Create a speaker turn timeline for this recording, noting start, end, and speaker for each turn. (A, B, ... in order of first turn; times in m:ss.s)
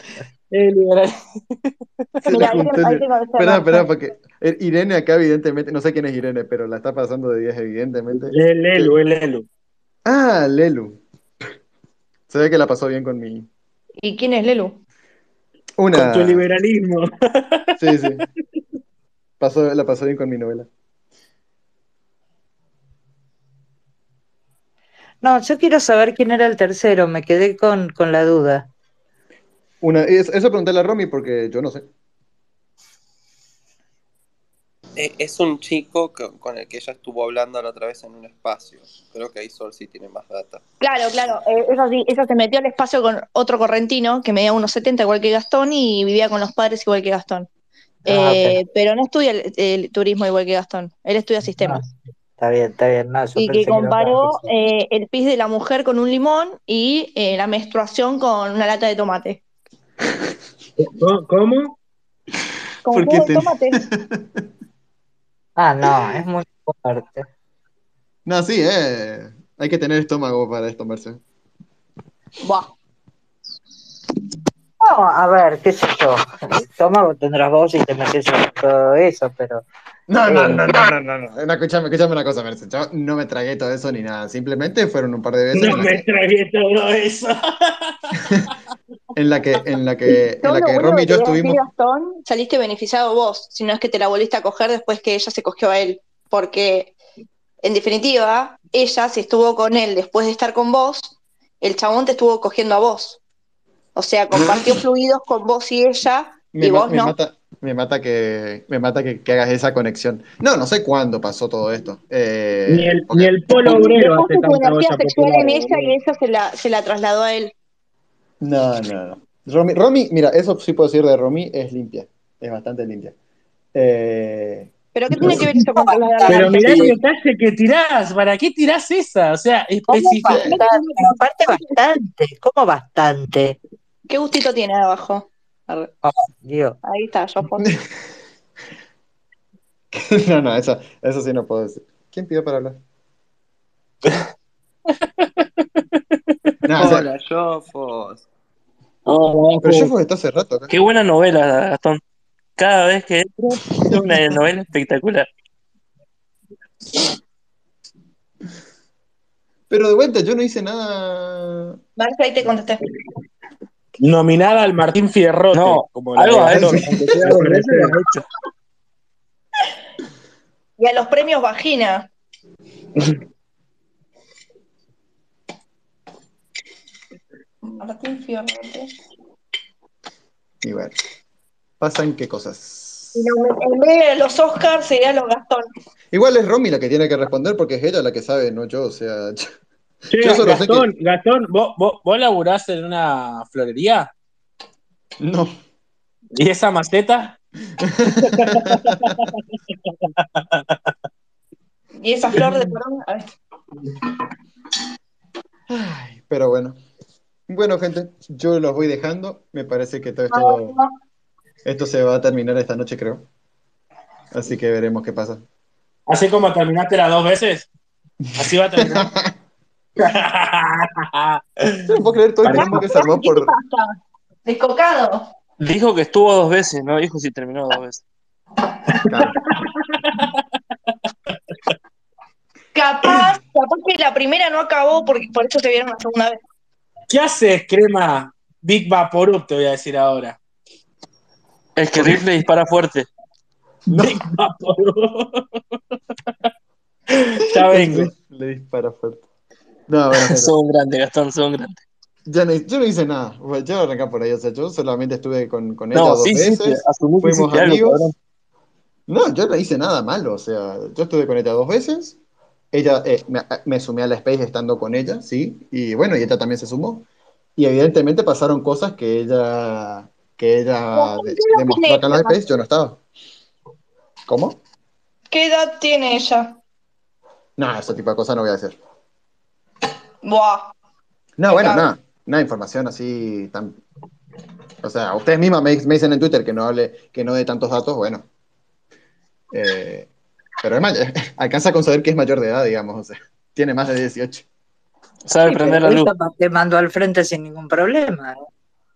0:00.5-0:02.6 A
0:02.2-0:09.0 B
0:02.3-0:03.9 C
0:08.1-0:09.4 A
0:10.0-0:11.0 B
0:12.3-0:13.5 B
0:14.0-0:14.8 C
0:15.8-0:16.4 B
0:15.9-0:18.2 A
0:17.8-0:18.2 B
0:19.4-0:20.7 B
0:25.2-0:28.7 D
0:29.8-0:31.9 B
0:35.0-0:40.6 E
0:40.8-0:47.5 C
0:48.1-0:48.6 D
0:48.1-0:51.8 C
0:51.6-0:54.4 D
0:53.4-0:59.4 C
1:00.8-1:01.8 A
1:02.8-1:03.8 C
1:02.9-1:04.4 B
1:05.6-1:07.3 D
1:08.2-1:11.2 B
1:12.4-1:12.7 C
1:14.8-1:19.6 D
1:20.1-1:26.0 B
1:20.3-1:20.6 A
1:25.5-1:28.2 A
1:29.1-1:31.6 B
1:30.4-1:36.9 C
1:37.6-1:43.2 C
1:44.0-1:47.1 C
1:44.3-1:44.8 B
1:46.5-1:53.4 B
1:52.7-1:56.0 A
1:53.6-1:57.5 C
1:58.4-2:03.1 B
2:03.7-2:05.4 B
2:04.9-2:06.9 C
2:05.5-2:07.0 D
2:06.2-2:10.5 A
2:09.9-2:13.6 D
2:10.2-2:11.6 C
2:10.3-2:10.6 B
2:14.1-2:15.9 C
2:16.0-2:16.8 D
2:16.8-2:17.7 C
2:19.9-2:22.8 B
2:26.6-2:27.1 B
2:26.8-2:28.2 E
2:29.1-2:29.9 A
2:29.6-2:30.7 B
2:30.7-2:32.0 F
2:32.6-2:35.3 F
2:39.7-2:41.8 B
2:42.0-2:42.8 C
2:44.0-2:48.0 A
2:45.5-2:48.2 F
2:50.8-2:52.1 C
2:57.6-2:58.9 C
3:00.6-3:00.9 B
3:01.8-3:03.2 B
3:03.1-3:05.7 C
3:06.1-3:09.5 B
3:10.1-3:14.1 A
3:10.2-3:10.9 B
3:15.2-3:15.5 B
3:16.4-3:17.4 A
3:17.8-3:19.1 B
3:18.2-3:20.6 A
3:22.0-3:23.3 C
3:22.3-3:22.7 A
3:25.7-3:26.8 B
3:27.5-3:30.8 B
3:30.3-3:30.9 C
3:31.6-3:33.2 B
3:34.3-3:35.4 B
3:36.1-3:37.7 A
3:38.4-3:39.1 A
3:38.8-3:39.3 B
3:40.0-3:41.8 A
3:41.8-3:43.5 B
3:42.5-3:42.8 A
3:42.5-3:45.3 C
3:45.6-3:48.0 F
3:49.0-3:49.4 B
3:50.0-3:50.3 A
3:52.7-3:56.4 C
3:57.1-4:00.4 A
4:01.8-4:03.1 F
4:03.9-4:04.2 B
4:03.9-4:05.4 A
4:07.2-4:08.1 A
4:07.6-4:09.2 B
4:09.9-4:10.5 B
4:10.2-4:11.8 F
4:12.2-4:18.0 B
4:15.9-4:18.1 F
4:19.1-4:22.2 B
4:22.7-4:33.0 B
4:30.9-4:32.4 C
4:34.3-4:34.6 B
4:35.3-4:36.6 C
4:37.6-4:38.8 B
4:40.2-4:40.7 C
4:41.4-4:43.8 B
4:41.5-4:41.9 C
4:44.8-4:48.3 B
4:49.5-4:50.1 B
4:50.6-4:54.4 B
4:55.2-4:56.1 F
4:55.4-4:58.4 D